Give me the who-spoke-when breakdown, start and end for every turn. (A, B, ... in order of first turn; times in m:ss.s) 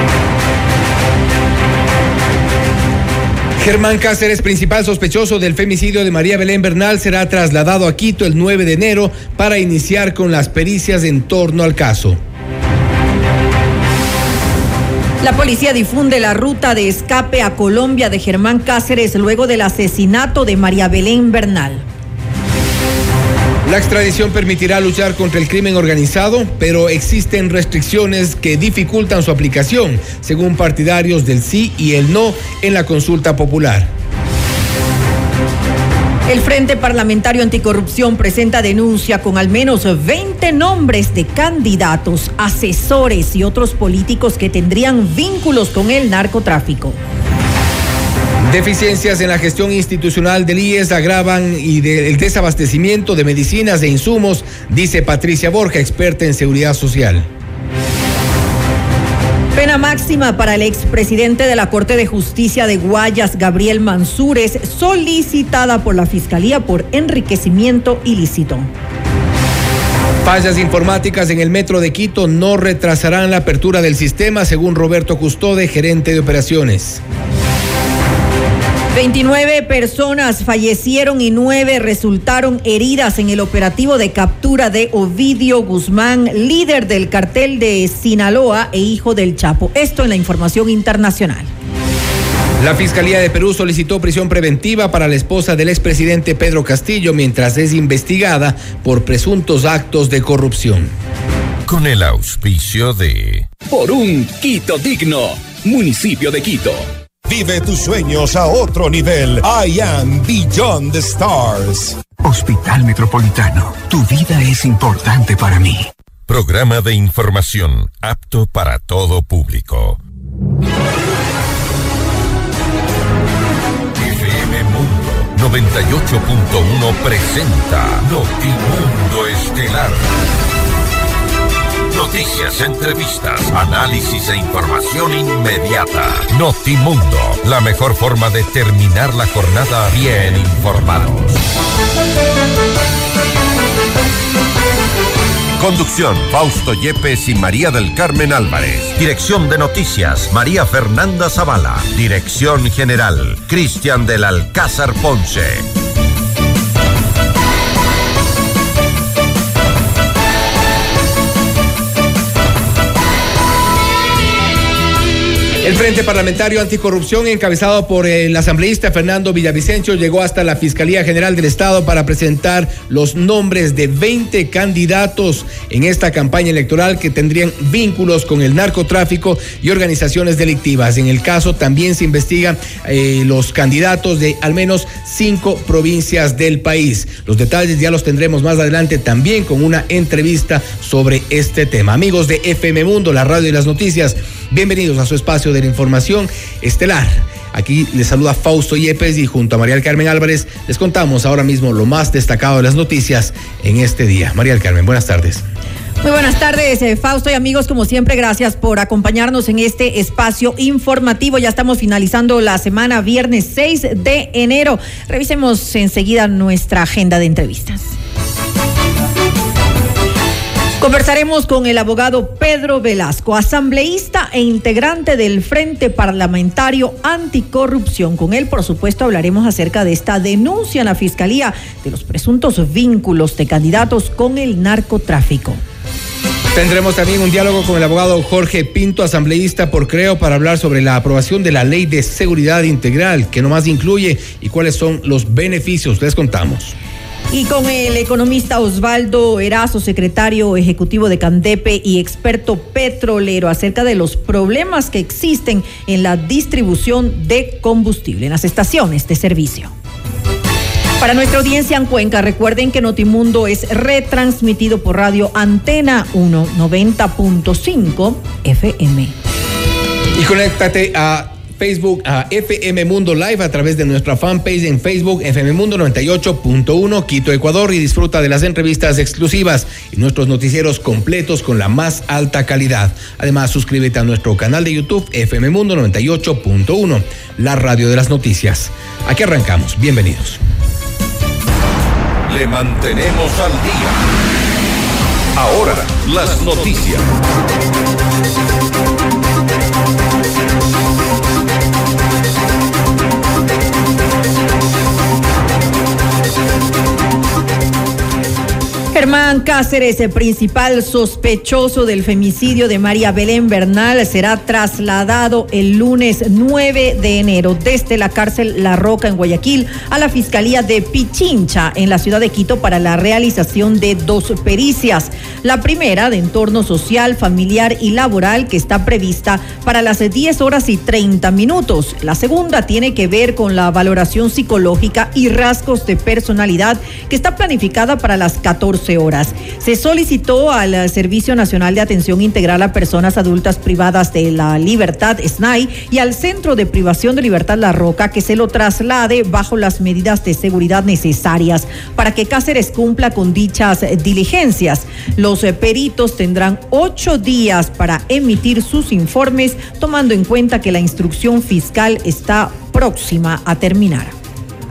0:03.6-0:12.2 A
0:15.2-0:21.8 B
0:23.6-0:33.9 A
0:36.3-0:47.0 B
0:48.4-0:57.3 A
0:59.6-1:08.7 B
1:10.2-1:17.0 A
1:18.9-1:31.5 B
1:32.6-1:40.9 A
1:41.7-1:43.5 C
1:43.7-1:46.9 D
1:47.3-1:52.0 E
1:52.2-1:55.9 F
1:56.3-2:00.0 C
2:04.0-2:10.1 C
2:11.9-2:21.4 C
2:25.6-2:35.7 C
2:45.6-3:25.4 A
3:26.0-3:38.0 B
3:40.8-3:55.6 B
3:56.5-4:06.8 A
4:07.3-4:19.7 B
4:21.0-4:29.2 B
4:30.2-4:50.4 A
4:52.3-4:54.1 C
4:55.4-4:57.1 C
5:08.9-6:04.2 B